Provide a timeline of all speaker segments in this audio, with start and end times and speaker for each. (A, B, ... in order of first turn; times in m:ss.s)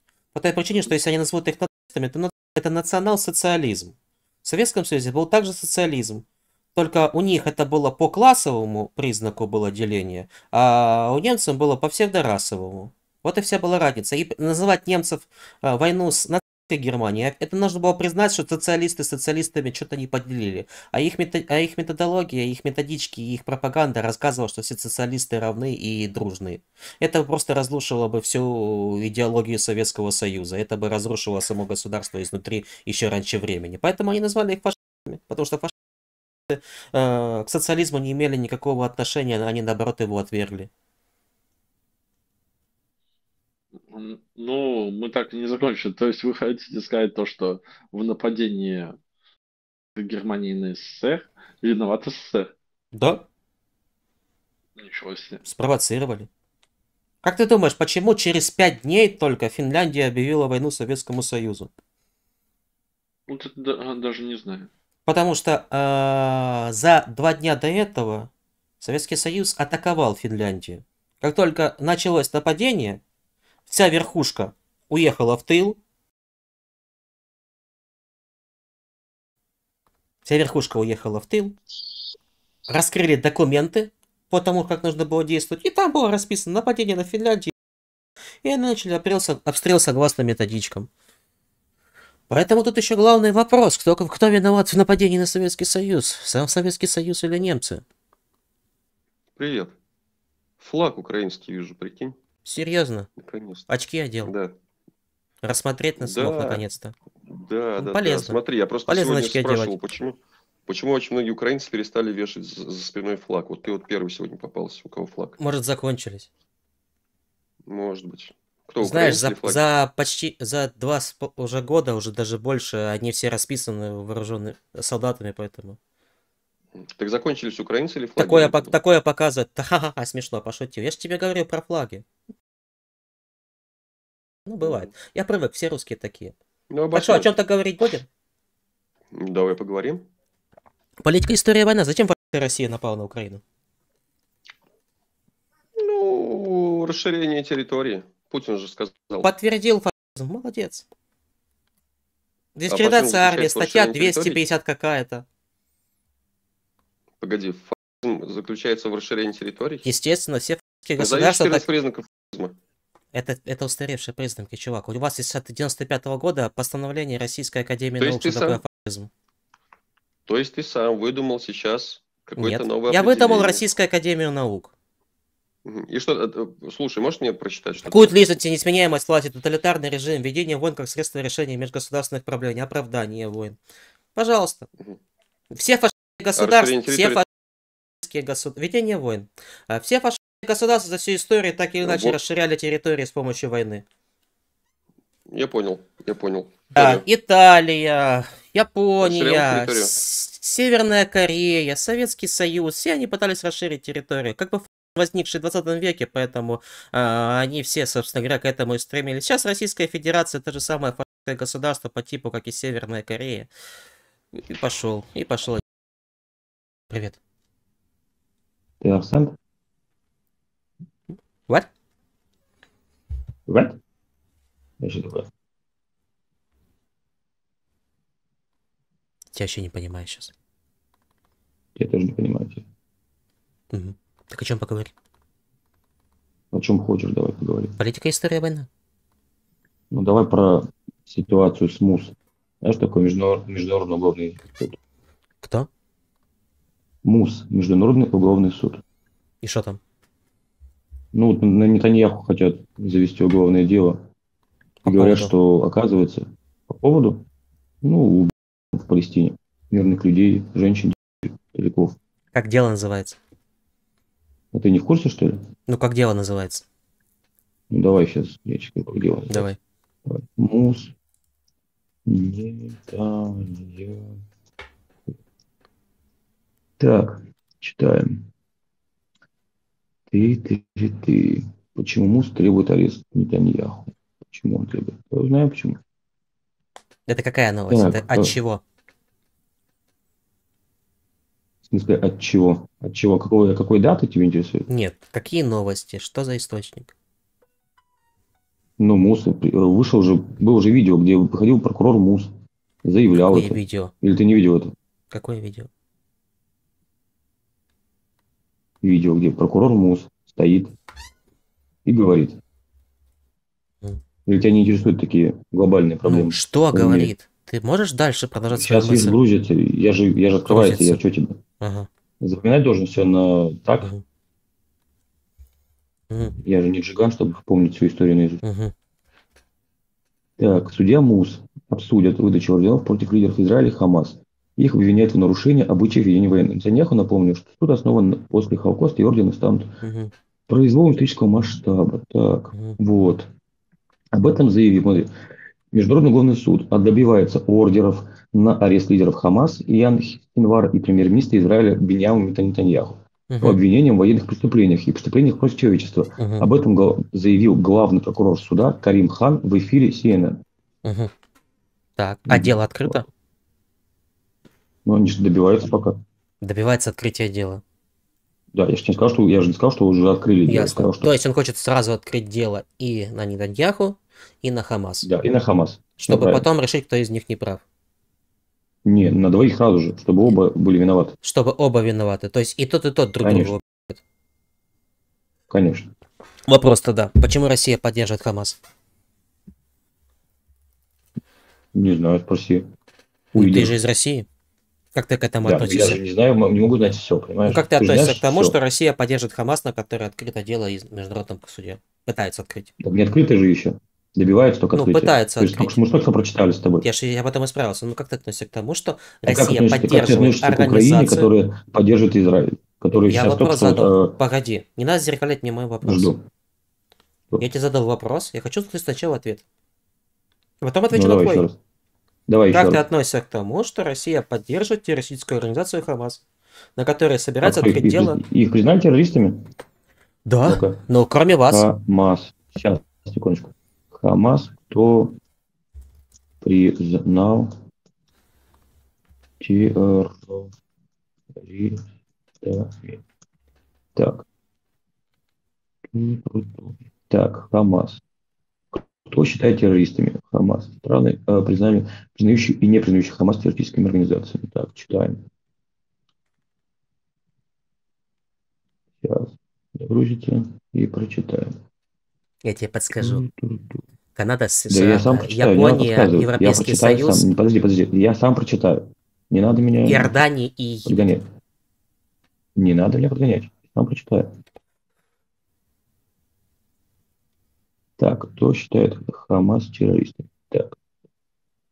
0:00.3-0:35.7 A
0:36.5-0:40.7 A
0:43.9-0:48.9 B
0:50.0-0:52.5 B
0:52.9-0:53.3 A
0:54.8-0:55.4 B
0:55.4-0:56.3 A
0:57.2-1:01.7 A
1:03.3-1:04.7 B
1:05.1-1:13.0 A
1:13.7-1:15.8 A
1:20.2-1:21.6 A
1:22.7-1:27.5 A
1:28.4-1:30.9 A
1:32.3-1:37.8 A
1:39.4-1:39.8 C
1:40.6-1:42.2 C
1:42.4-1:43.1 A
1:43.2-1:43.7 C
1:43.7-1:44.3 A
1:44.3-1:44.6 C
1:45.4-1:47.0 A
1:46.0-1:46.6 C
1:47.3-1:55.4 C
1:47.8-1:49.8 A
1:55.4-1:56.3 A
1:57.7-1:59.6 C
1:58.8-2:05.8 A
2:06.8-2:08.8 C
2:08.2-2:12.0 A
2:14.5-2:16.4 A
2:14.6-2:14.9 C
2:16.7-2:17.3 C
2:16.9-2:18.1 A
2:19.2-2:20.1 C
2:21.0-2:23.4 A
2:25.8-2:29.3 C
2:29.2-2:30.8 A
2:32.6-2:35.2 A
2:32.7-2:34.4 C
2:37.2-2:39.9 C
2:39.8-2:41.7 A
2:41.0-2:42.6 C
2:43.1-2:49.1 A
2:48.0-2:48.6 C
2:50.3-2:53.6 C
2:52.4-2:54.7 A
2:55.6-2:58.2 C
2:57.8-3:03.6 A
3:04.2-3:04.7 A
3:05.5-3:07.3 A
3:06.4-3:07.2 C
3:08.0-3:13.8 A
3:11.8-3:12.2 C
3:15.3-3:17.0 C
3:16.8-3:33.5 A
3:19.0-3:20.0 C
3:34.4-3:35.6 A
3:36.9-3:37.2 A
3:38.8-3:39.3 D
3:43.5-3:43.8 D
3:44.8-3:45.3 D
3:49.3-3:50.3 A
3:51.8-3:52.6 D
3:53.7-3:54.9 A
3:56.5-3:57.7 D
3:57.8-3:58.7 A
3:59.9-4:04.8 D
4:05.4-4:05.7 A
4:07.0-4:08.8 D
4:09.4-4:09.8 A
4:11.1-4:14.0 D
4:14.8-4:15.3 A
4:14.9-4:17.2 D
4:17.8-4:21.9 D
4:22.3-4:23.2 A
4:24.5-4:25.4 D
4:25.7-4:26.6 A
4:27.7-4:29.5 D
4:29.3-4:29.6 A
4:30.1-4:30.9 D
4:32.1-4:34.1 D
4:36.8-4:38.2 D
4:40.1-4:45.8 D
4:47.1-4:48.6 A
4:47.7-4:48.3 D
4:51.7-4:54.7 D
4:54.7-4:56.9 A
4:58.8-5:02.3 D
5:02.8-5:04.7 D
5:03.1-5:03.9 A
5:05.1-5:05.7 A
5:08.8-5:10.7 D
5:11.9-5:12.4 D
5:14.3-5:17.1 D
5:16.0-5:19.2 A
5:18.5-5:21.4 D
5:20.4-5:21.0 A
5:21.6-5:21.9 A
5:22.2-5:23.9 D
5:26.1-5:26.4 A
5:26.4-5:28.4 D
5:28.4-5:28.7 A
5:30.4-5:39.7 D
5:39.8-5:40.1 A
5:40.5-5:43.3 D
5:44.1-5:45.1 D
5:45.7-6:00.4 D
5:53.3-5:53.6 A
5:56.2-5:56.5 A
6:00.8-6:01.1 A
6:02.0-6:03.1 A
6:02.3-6:03.0 D
6:04.9-6:06.0 D
6:06.4-6:07.6 A
6:08.5-6:11.1 D
6:10.5-6:15.1 A
6:15.0-6:16.5 D
6:16.0-6:17.6 A
6:18.8-6:21.2 D
6:21.2-6:24.0 A
6:23.2-6:23.6 D
6:25.5-6:25.9 D
6:26.5-6:28.6 A
6:31.8-6:32.6 D
6:33.4-6:33.7 D
6:33.4-6:34.3 A
6:34.9-6:36.0 A
6:35.4-6:38.6 D
6:37.5-6:42.7 A
6:42.8-6:46.8 D
6:44.7-6:45.8 A
6:46.8-6:51.3 A
6:49.3-6:54.2 D
6:53.1-6:56.1 A
6:55.8-6:56.2 D
6:57.4-6:59.4 A
7:00.6-7:01.5 A
7:00.9-7:01.6 D
7:02.3-7:02.8 D
7:02.5-7:06.2 A
7:06.8-7:08.2 A
7:07.4-7:09.4 D
7:10.3-7:11.7 A
7:10.4-7:10.8 D
7:11.5-7:15.2 D
7:16.4-7:17.5 D
7:19.4-7:20.5 D
7:21.4-7:21.8 D
7:22.4-7:23.0 D
7:24.0-7:24.2 D
7:25.9-7:28.0 D
7:28.7-7:35.2 D
7:39.0-7:41.5 D
7:42.4-7:43.2 A
7:43.0-7:43.8 D
7:44.2-7:47.3 A
7:44.7-7:50.1 D
7:49.8-7:51.1 A
7:50.9-7:51.2 D
7:52.6-7:54.3 D
7:58.0-8:00.8 D